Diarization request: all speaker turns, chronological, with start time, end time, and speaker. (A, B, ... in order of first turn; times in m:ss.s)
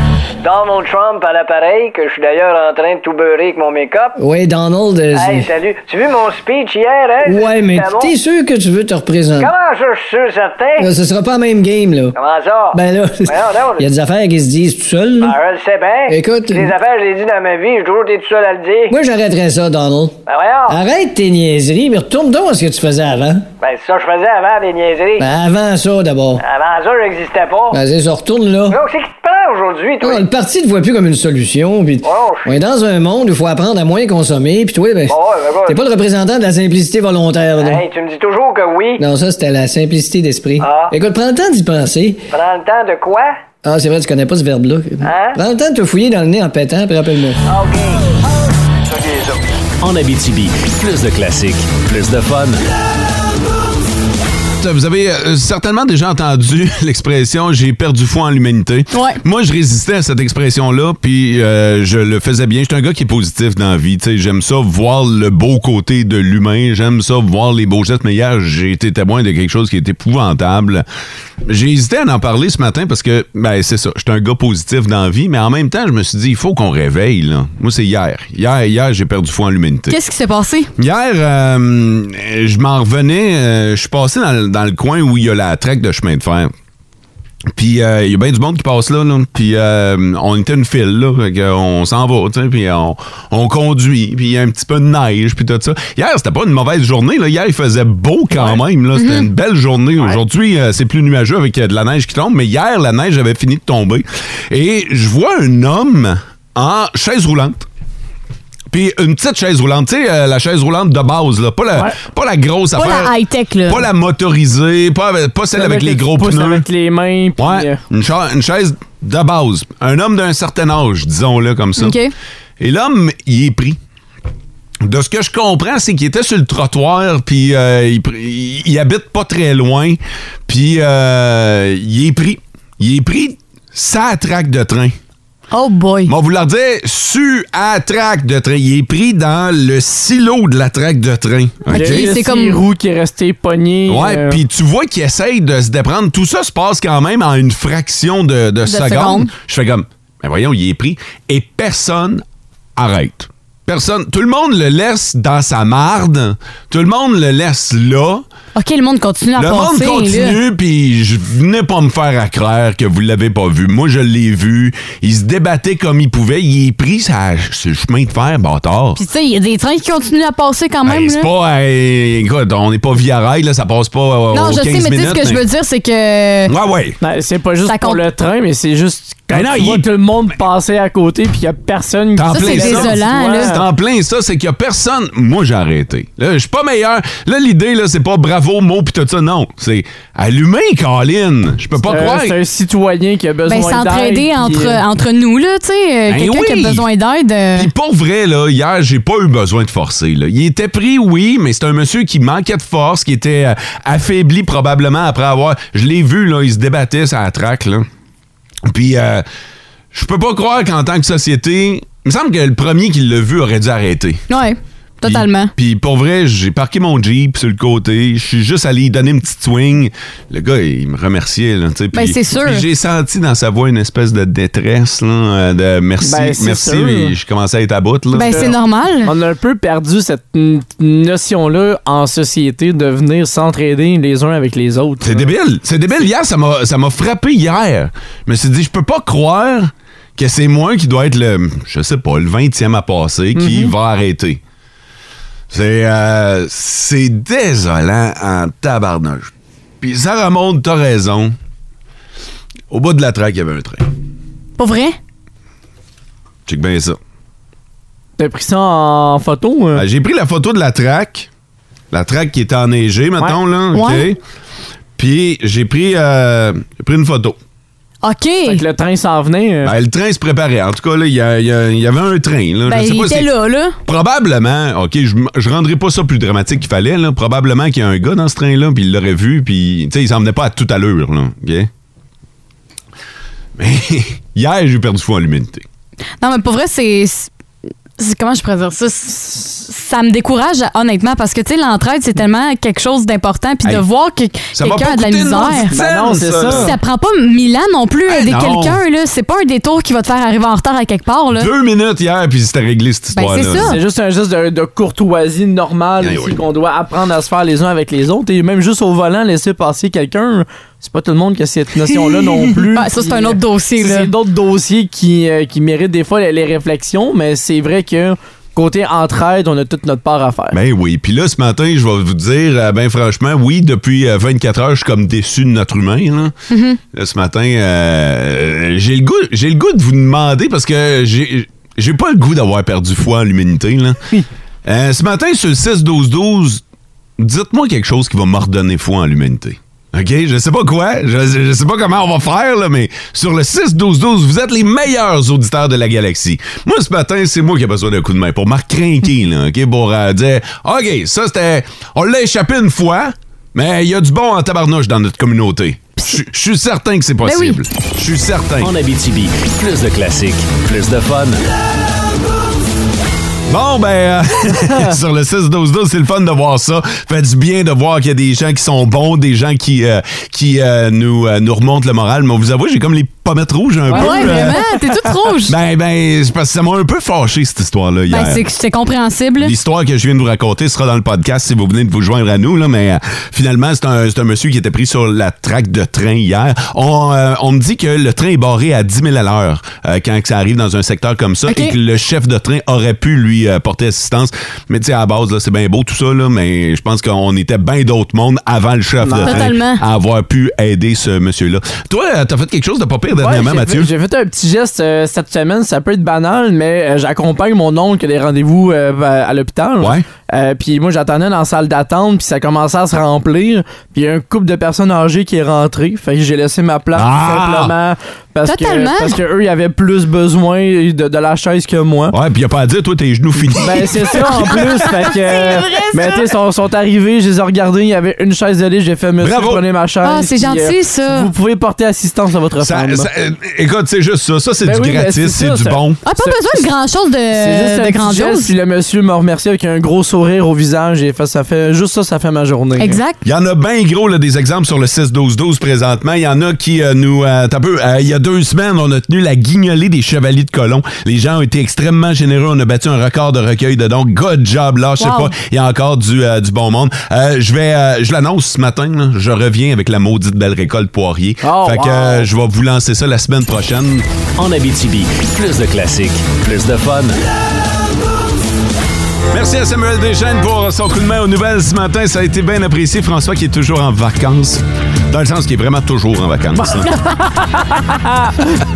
0:00.4-0:04.2 A
0:04.2-0:05.5 B
0:05.1-0:08.1 A
0:07.2-0:09.5 B
0:09.4-0:10.9 A
0:10.8-0:12.2 B
0:12.2-0:12.8 A
0:12.7-0:15.4 B
0:13.3-0:13.8 A
0:15.2-0:18.9 A
0:16.1-0:16.7 B
0:18.9-0:20.2 B
0:20.3-0:20.7 A
0:20.7-0:23.5 B
0:23.6-0:25.2 A
0:25.2-0:26.4 B
0:26.4-0:27.8 A
0:27.7-0:28.8 B
0:28.7-0:30.2 A
0:30.0-0:35.1 B
0:32.0-0:32.5 A
0:35.1-0:35.8 A
0:35.6-0:37.8 B
0:37.6-0:39.0 A
0:39.0-0:42.2 B
0:40.6-0:40.9 A
0:42.3-0:43.4 A
0:43.6-0:47.4 B
0:45.0-0:45.4 A
0:47.5-0:48.1 A
0:48.9-0:49.4 A
0:49.8-0:52.6 C
0:54.6-1:10.8 D
0:58.9-0:59.2 E
1:11.4-1:20.0 D
1:19.9-1:20.7 E
1:20.8-1:26.5 D
1:27.5-1:47.6 D
1:39.0-1:39.3 E
1:48.7-1:53.1 D
1:52.7-1:53.9 E
1:53.7-1:56.6 D
1:55.5-1:57.8 F
1:57.4-2:02.0 D
2:01.8-2:02.1 E
2:02.6-2:03.8 D
2:04.8-2:15.0 D
2:15.5-2:16.1 E
2:16.1-2:22.1 D
2:21.7-2:24.4 F
2:21.7-2:22.6 E
2:23.9-2:32.2 D
2:28.7-2:29.3 E
2:32.8-2:38.2 D
2:38.5-2:40.4 E
2:39.4-2:49.0 D
2:49.0-2:51.3 E
2:50.8-2:55.4 D
2:54.3-2:56.5 E
2:56.5-2:57.0 D
2:57.0-3:03.6 F
2:57.7-2:58.0 E
2:59.3-2:59.8 D
3:02.2-3:12.4 D
3:02.3-3:03.5 E
3:11.8-3:14.8 F
3:13.5-3:17.7 E
3:16.1-3:16.8 D
3:17.5-3:27.9 D
3:28.6-3:29.2 D
3:29.9-3:34.2 D
3:34.3-3:35.5 E
3:35.0-3:48.5 D
3:41.9-3:42.6 E
3:46.0-3:47.1 F
3:48.1-3:49.1 E
3:48.2-3:48.5 F
3:49.0-3:55.3 F
3:55.0-4:04.4 D
4:03.4-4:03.7 F
4:05.5-4:11.4 D
4:12.7-4:13.9 D
4:14.6-4:15.0 E
4:16.4-4:17.0 D
4:18.2-4:19.8 F
4:19.7-4:21.3 D
4:21.9-4:24.2 D
4:23.7-4:24.1 E
4:25.0-4:27.4 D
4:28.0-4:28.6 E
4:28.4-4:29.7 F
4:29.6-4:33.3 D
4:32.7-4:33.8 E
4:33.8-4:41.7 D
4:43.6-4:45.6 D
4:46.2-4:47.3 E
4:48.0-4:55.7 E
4:54.5-4:56.7 D
4:55.7-4:56.7 F
4:56.5-5:01.5 E
4:58.1-4:58.8 D
5:01.3-5:03.8 D
5:03.1-5:03.8 E
5:03.6-5:20.6 F
5:06.0-5:06.4 D
5:12.7-5:14.1 E
5:20.5-5:26.3 D
5:26.5-5:26.8 E
5:26.9-5:34.0 D
5:34.6-5:36.6 D
5:37.2-5:58.7 D
5:57.2-5:57.6 E
5:58.6-6:01.4 C
6:03.5-6:14.6 D
6:13.9-6:14.8 F
6:13.9-6:15.5 E
6:15.4-6:18.4 D
6:18.1-6:19.5 E
6:19.4-6:43.9 D
6:31.5-6:31.7 E
6:39.0-6:39.5 F
6:39.2-6:39.8 E
6:43.2-7:02.2 F
6:49.8-6:50.0 D
6:56.9-6:57.7 D
6:58.4-6:59.2 E
7:02.1-7:05.0 D
7:03.6-7:13.1 F
7:05.0-7:06.3 E
7:09.2-7:09.6 D
7:10.0-7:11.3 E
7:12.6-7:16.0 D
7:14.6-7:16.6 F
7:16.0-7:18.5 E
7:17.3-7:23.0 F
7:22.8-7:23.2 E
7:23.2-7:44.1 D
7:41.4-7:42.3 F
7:44.4-7:47.2 C
7:49.3-7:57.0 D
7:58.0-7:58.3 F